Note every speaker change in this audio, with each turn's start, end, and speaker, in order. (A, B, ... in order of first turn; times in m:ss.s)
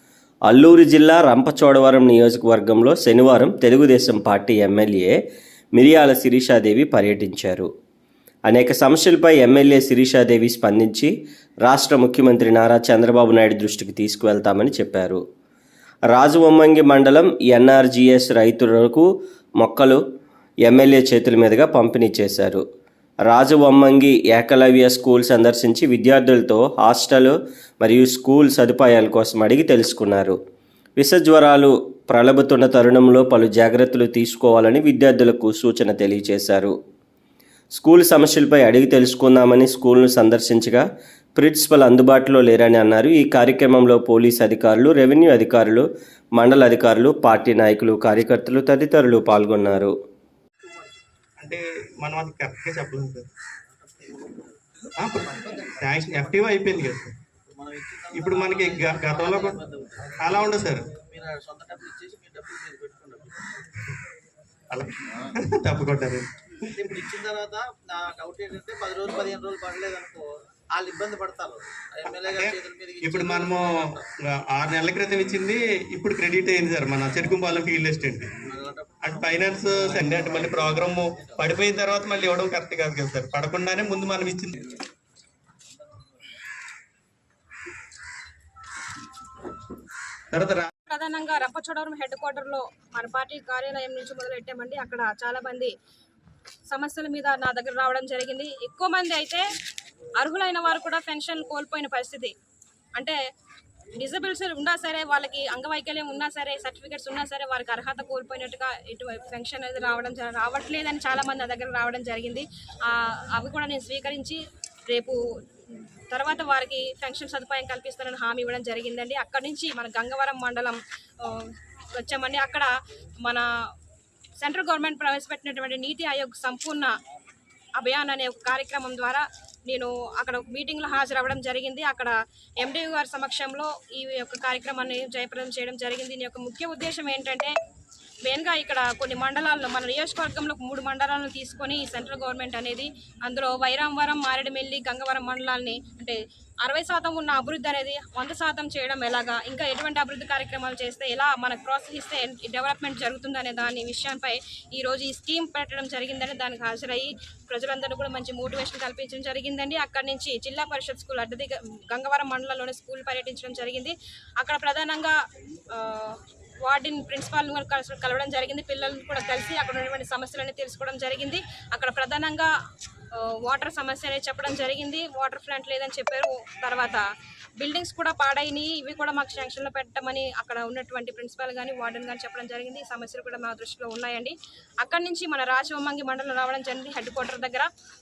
0:00.5-0:05.2 A
0:05.7-0:07.7 A
0:08.5-0:11.1 A
0:11.6-0:15.2 A
0:16.1-0:19.1 A
0:19.6-0:20.0 A
0:20.6-0:22.6 A
0:23.3-0:30.4 A
0:31.0-0:36.7 A
0:37.7-0:40.8 A
0:41.4-0:49.9 A
0:50.6-0:51.0 B
0:51.4-0:53.3 C
0:53.6-0:54.6 B
0:55.0-0:57.2 C
0:55.8-0:56.9 B
0:57.4-1:03.6 B
0:58.1-0:59.6 C
1:00.2-1:00.9 C
1:04.7-1:06.3 C
1:06.7-1:14.0 B
1:12.3-1:18.3 C
1:17.1-1:17.4 B
1:18.4-1:21.5 B
1:19.0-1:24.7 C
1:30.3-1:30.7 C
1:30.9-1:35.7 D
1:36.7-1:39.4 D
1:40.2-1:42.3 D
1:44.0-1:54.4 D
1:54.9-2:02.7 D
2:03.2-2:03.5 D
2:04.4-2:06.9 D
2:07.8-2:17.5 D
2:18.2-2:45.2 D
2:45.7-2:52.5 D
2:53.1-2:57.0 D
2:57.6-3:07.7 D